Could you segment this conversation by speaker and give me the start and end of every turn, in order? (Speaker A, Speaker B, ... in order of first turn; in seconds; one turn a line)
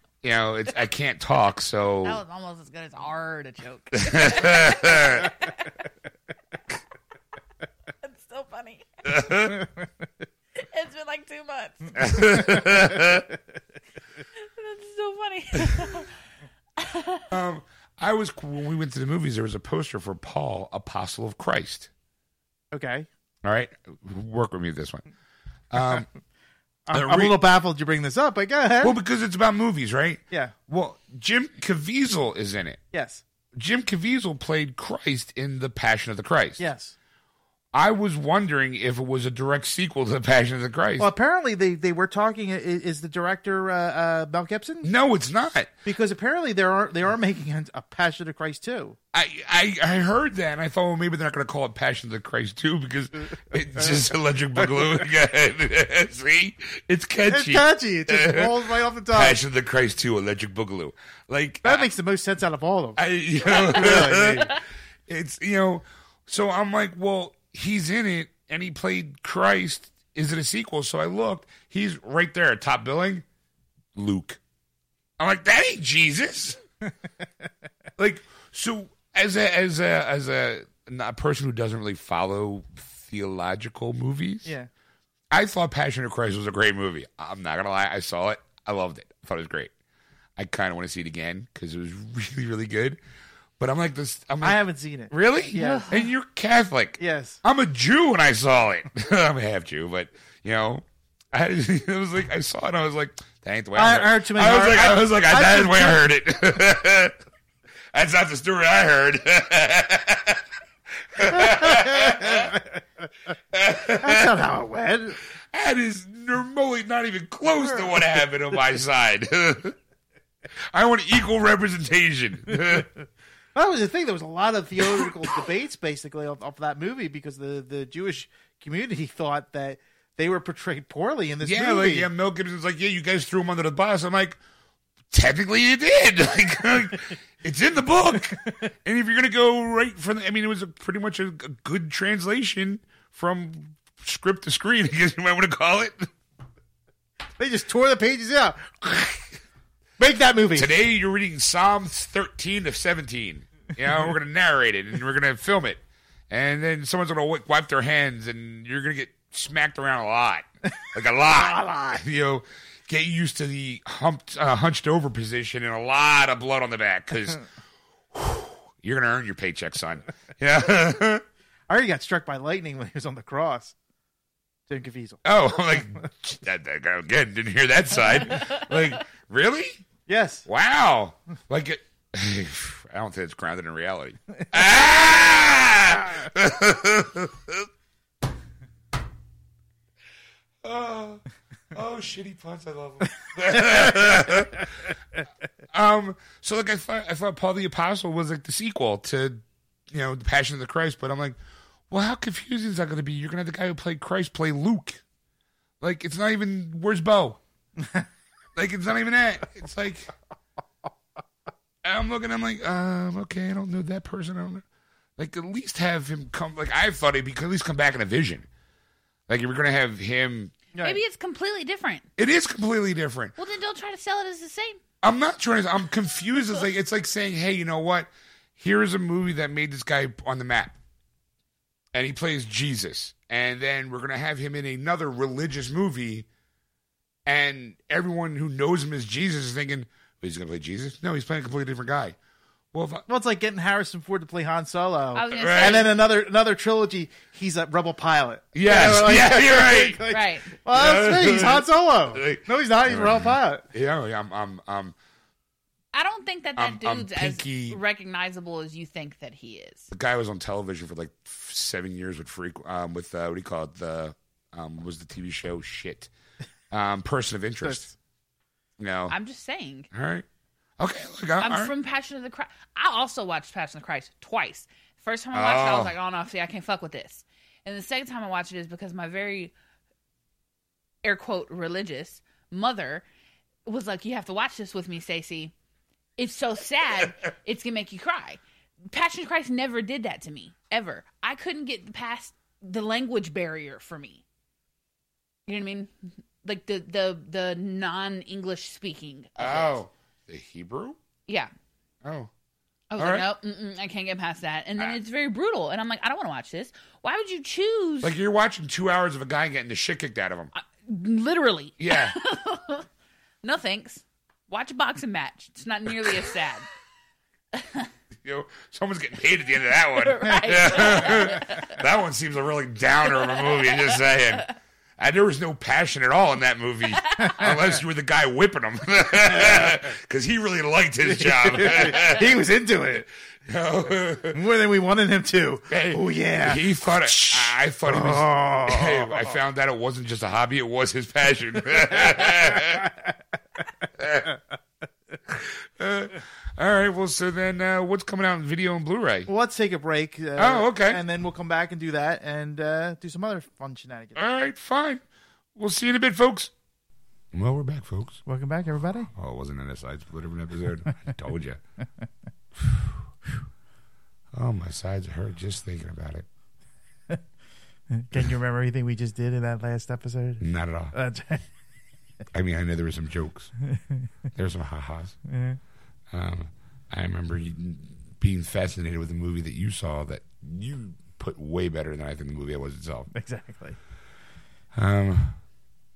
Speaker A: 0.2-2.2
Speaker B: 2.0-5.7
Speaker A: 3.9-5.3
Speaker B: 8.0-9.5
Speaker A: 9.1-9.6
Speaker B: 10.6-12.3
Speaker A: 12.0-13.3
Speaker B: 14.4-16.1
Speaker B: 16.8-17.3
Speaker A: 17.3-21.9
Speaker C: 22.7-23.1
Speaker A: 23.4-25.1
Speaker A: 25.7-26.1
Speaker C: 26.9-29.0
Speaker A: 26.9-27.3
Speaker A: 28.8-32.8
Speaker C: 32.9-33.2
Speaker A: 33.5-36.6
Speaker C: 36.6-37.0
Speaker A: 37.7-41.1
Speaker C: 41.0-44.9
Speaker A: 44.8-45.7
Speaker C: 45.9-49.0
Speaker A: 49.1-58.5
Speaker C: 57.3-59.4
Speaker A: 59.1-61.9
Speaker C: 61.6-64.6
Speaker A: 63.0-73.2
Speaker A: 74.0-74.4
Speaker A: 75.2-76.6
Speaker A: 78.0-84.5
Speaker A: 85.3-89.7
Speaker A: 90.4-93.0
Speaker A: 93.6-107.2
Speaker C: 94.4-95.9
Speaker B: 95.6-96.1
Speaker C: 97.0-97.4
Speaker C: 103.8-106.0
Speaker A: 107.9-110.5
Speaker A: 111.1-112.6
Speaker C: 111.3-112.8
Speaker A: 113.5-114.3
Speaker C: 113.9-115.2
Speaker A: 115.5-119.8
Speaker A: 120.7-122.9
Speaker C: 123.5-132.1
Speaker A: 124.8-125.1
Speaker A: 131.4-134.4
Speaker A: 135.1-146.1
Speaker C: 147.4-149.4
Speaker C: 150.0-150.7
Speaker A: 150.6-167.4
Speaker C: 161.4-162.0
Speaker A: 168.1-171.2
Speaker C: 171.7-173.8
Speaker C: 174.7-175.2
Speaker A: 175.2-179.8
Speaker C: 180.1-180.5
Speaker A: 180.5-187.7
Speaker A: 190.6-194.9
Speaker A: 195.7-201.4
Speaker A: 201.9-205.0
Speaker A: 205.8-207.4
Speaker A: 208.6-210.1
Speaker A: 211.8-214.6
Speaker A: 215.2-218.5
Speaker A: 219.3-220.5
Speaker C: 220.8-221.0
Speaker B: 220.8-222.1
Speaker A: 222.2-223.3
Speaker B: 223.4-224.8
Speaker A: 225.0-230.8
Speaker A: 231.9-236.3
Speaker A: 237.3-242.2
Speaker A: 242.7-243.1
Speaker C: 243.1-253.7
Speaker B: 245.2-245.9
Speaker A: 245.3-245.9
Speaker A: 248.5-250.1
Speaker B: 250.1-250.5
Speaker A: 250.7-254.9
Speaker B: 255.9-259.9
Speaker A: 256.6-257.8
Speaker A: 259.9-266.1
Speaker A: 266.7-267.9
Speaker C: 267.6-267.9
Speaker A: 268.8-269.1
Speaker B: 269.1-269.9
Speaker A: 269.9-270.3
Speaker A: 270.8-271.7
Speaker B: 271.4-279.5
Speaker A: 275.3-275.9
Speaker B: 281.0-283.1
Speaker B: 283.7-285.5
Speaker B: 286.2-288.4
Speaker B: 288.9-294.2
Speaker B: 295.5-295.9
Speaker B: 296.4-299.8
Speaker A: 299.4-301.0
Speaker A: 302.0-302.3
Speaker B: 302.9-308.1
Speaker A: 303.0-303.3
Speaker A: 308.0-310.5
Speaker B: 310.6-312.9
Speaker A: 311.8-312.1
Speaker B: 313.4-316.7
Speaker B: 317.5-317.9
Speaker A: 318.2-332.3
Speaker B: 319.9-321.8
Speaker C: 320.7-321.1
Speaker B: 323.2-324.0
Speaker B: 327.0-327.3
Speaker C: 327.2-327.6
Speaker C: 331.1-333.1
Speaker A: 333.5-334.4
Speaker C: 334.3-339.3
Speaker A: 335.7-342.9
Speaker C: 342.5-342.8
Speaker A: 344.0-344.3
Speaker A: 345.3-349.3
Speaker C: 349.3-354.2
Speaker A: 350.4-351.0
Speaker A: 354.1-355.0
Speaker A: 355.6-356.5
Speaker A: 357.3-358.2
Speaker C: 358.3-359.1
Speaker A: 359.1-361.6
Speaker A: 364.3-366.3
Speaker C: 367.9-371.4
Speaker A: 370.4-370.9
Speaker A: 372.3-373.5
Speaker C: 373.7-374.1
Speaker A: 374.4-375.2
Speaker C: 375.3-375.6
Speaker A: 376.1-383.1
Speaker C: 383.1-383.8
Speaker A: 384.7-385.4